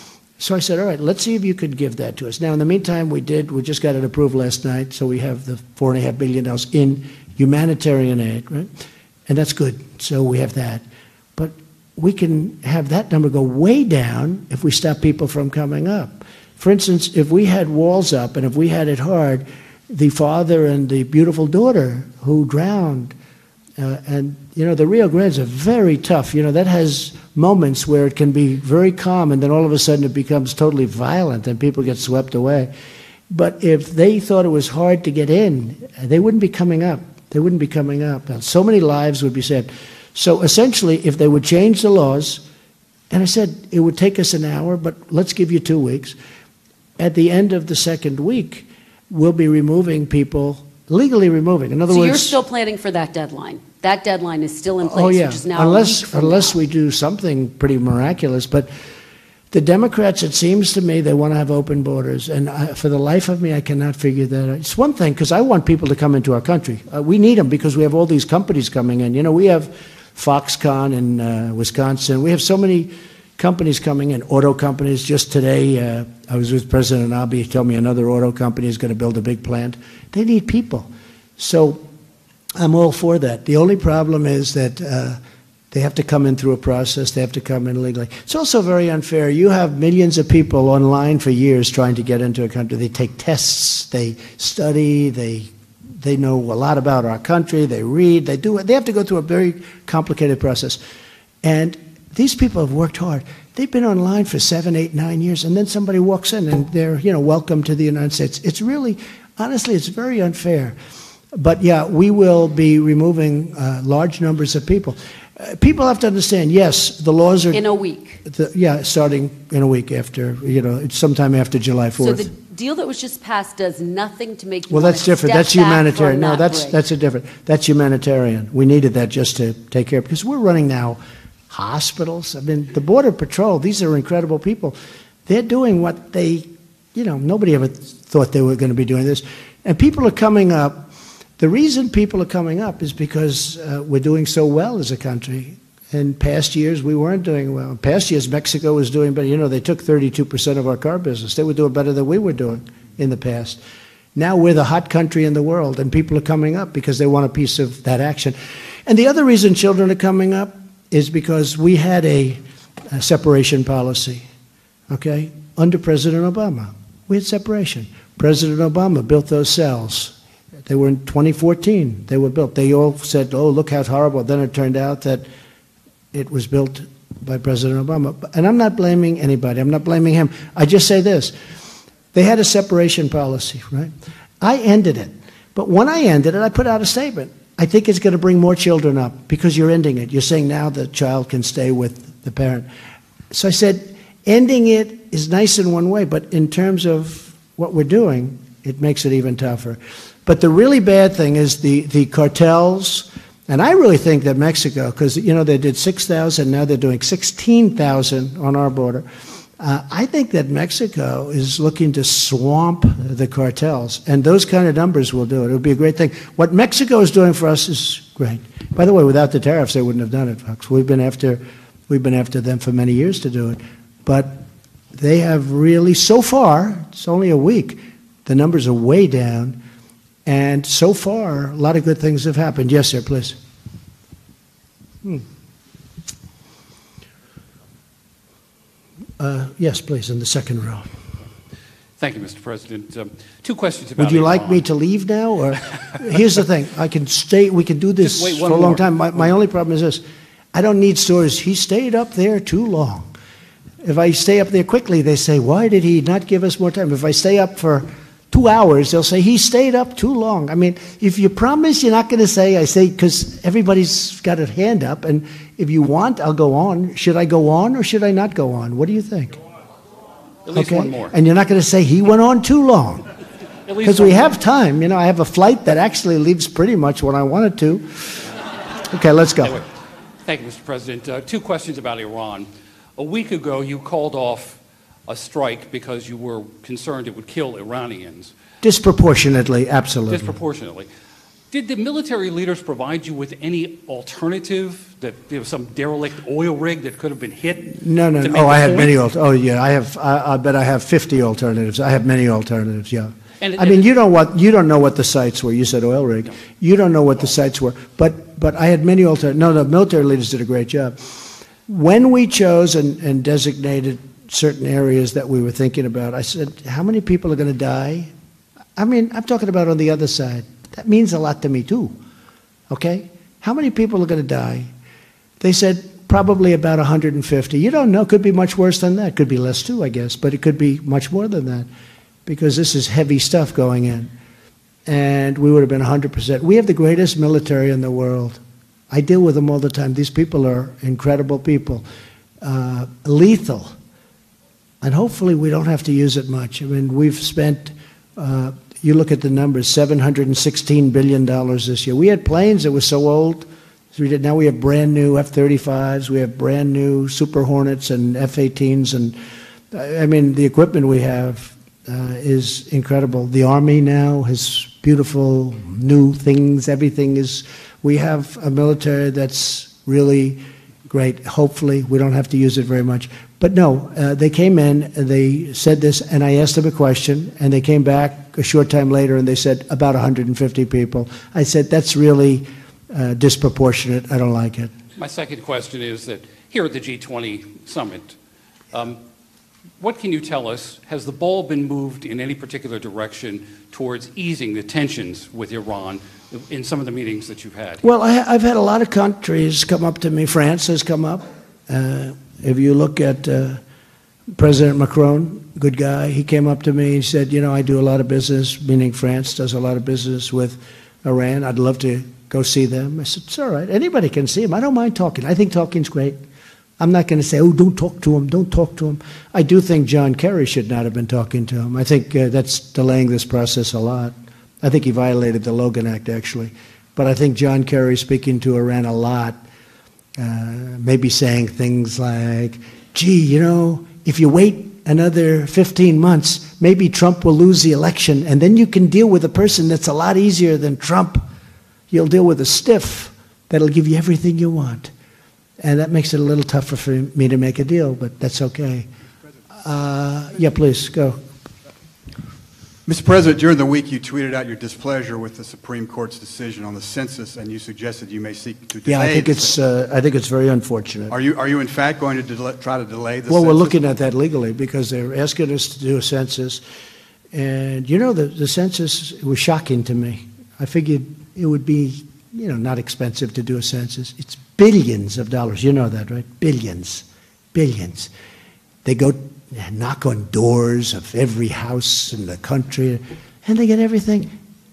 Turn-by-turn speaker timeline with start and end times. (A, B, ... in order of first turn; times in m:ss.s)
0:00.4-0:08.7 A
0:09.3-0:10.8 A
0:11.4-0:23.1 A
0:23.8-0:32.7 A
0:33.3-0:42.4 A
0:43.1-0:46.2 A
0:47.0-0:52.4 A
0:51.9-0:56.6 B
0:54.8-0:58.7 A
0:59.5-1:21.8 A
1:22.6-1:25.2 A
1:25.7-1:40.8 A
1:41.4-1:50.8 A
1:51.3-1:57.6 A
1:57.5-1:58.2 B
1:58.2-2:02.3 A
2:02.0-2:06.8 B
2:04.7-2:11.0 A
2:11.5-2:33.6 A
2:34.2-2:44.3 A
2:44.9-2:50.2 A
2:50.7-2:55.3 A
2:56.1-3:01.3 A
3:02.1-3:12.7 A
3:13.3-3:29.0 A
3:29.6-3:44.4 A
3:44.9-3:49.6 A
3:50.3-3:53.4 A
3:59.2-4:00.9 A
4:02.0-4:04.7 C
4:04.0-4:10.0 A
4:08.0-4:09.3 C
4:10.5-4:13.1 A
4:13.8-4:29.4 A
4:30.5-4:31.1 C
4:30.5-4:33.1 A
4:33.7-4:34.3 C
4:33.8-4:38.2 A
4:38.9-4:39.6 A
4:40.2-4:48.4 C
4:48.6-4:50.3 A
4:50.1-4:50.9 C
4:51.5-4:59.0 C
4:57.7-5:18.1 A
5:03.4-5:03.9 C
5:18.8-5:22.0 A
5:22.7-5:24.7 A
5:25.4-5:31.7 A
5:32.3-5:34.1 A
5:34.9-5:38.4 A
5:38.9-5:41.8 A
5:42.4-5:43.7 A
5:44.8-5:59.2 A
5:59.7-6:24.7 A
6:25.0-6:28.2 C
6:28.7-6:29.0 C
6:29.8-6:37.8 C
6:37.8-6:43.6 A
6:44.4-6:56.2 A
6:56.8-7:09.4 A
7:10.2-7:21.2 A
7:21.9-7:24.9 A
7:25.6-7:28.9 A
7:29.6-7:31.2 A
7:32.9-7:39.6 D
7:38.9-7:41.1 A
7:41.1-7:43.8 D
7:43.3-7:46.6 A
7:47.3-7:58.1 A
7:58.8-8:04.4 A